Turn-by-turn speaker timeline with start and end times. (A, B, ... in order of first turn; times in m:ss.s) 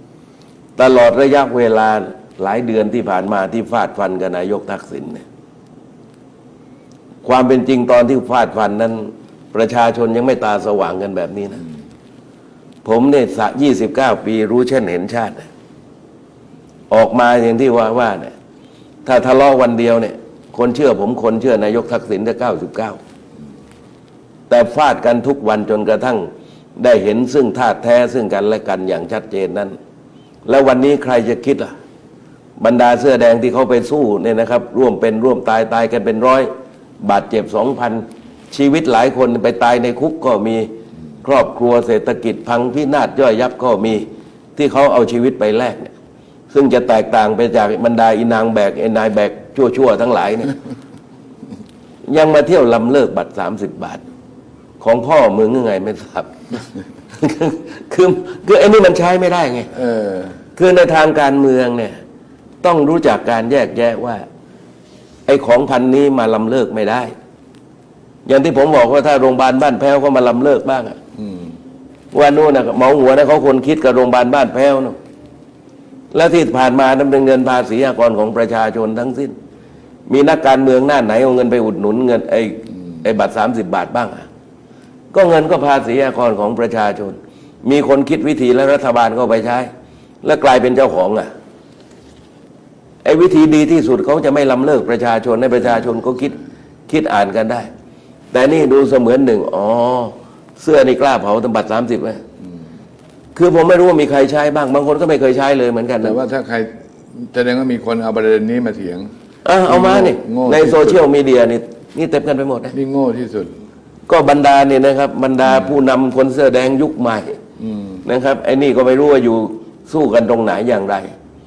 0:00.8-0:05.2 A
0:07.2-0:11.6 A
0:12.8-0:15.5 A
0:16.9-0:18.3 A
0:19.0-0:23.0 A
0:24.5-0:29.8 A
0:30.5-0:31.7 A
0:32.6-0:36.5 A
0:37.0-0:40.7 A
0:41.2-0:45.9 A
0:46.5-0:50.6 A
0:52.0-0:54.0 A
0:54.8-0:56.3 A
0:57.1-0:59.7 A
0:59.7-1:00.4 B
1:00.6-1:02.0 A
1:02.6-1:04.2 A
1:05.3-1:07.1 A
1:08.3-1:11.0 A
1:11.2-1:11.6 B
1:12.1-1:15.0 A
1:16.1-1:19.3 A
1:20.1-1:24.3 A
1:25.1-1:29.7 A
1:30.2-1:31.3 A
1:33.0-1:36.4 A
1:36.9-1:37.7 A
1:38.3-1:42.2 A
1:43.4-1:46.2 A
1:46.0-1:49.1 B
1:49.4-1:52.8 A
1:49.7-1:51.0 B
1:52.7-1:53.6 B
1:54.1-1:57.4 A
1:57.6-1:58.0 B
1:58.0-2:01.1 A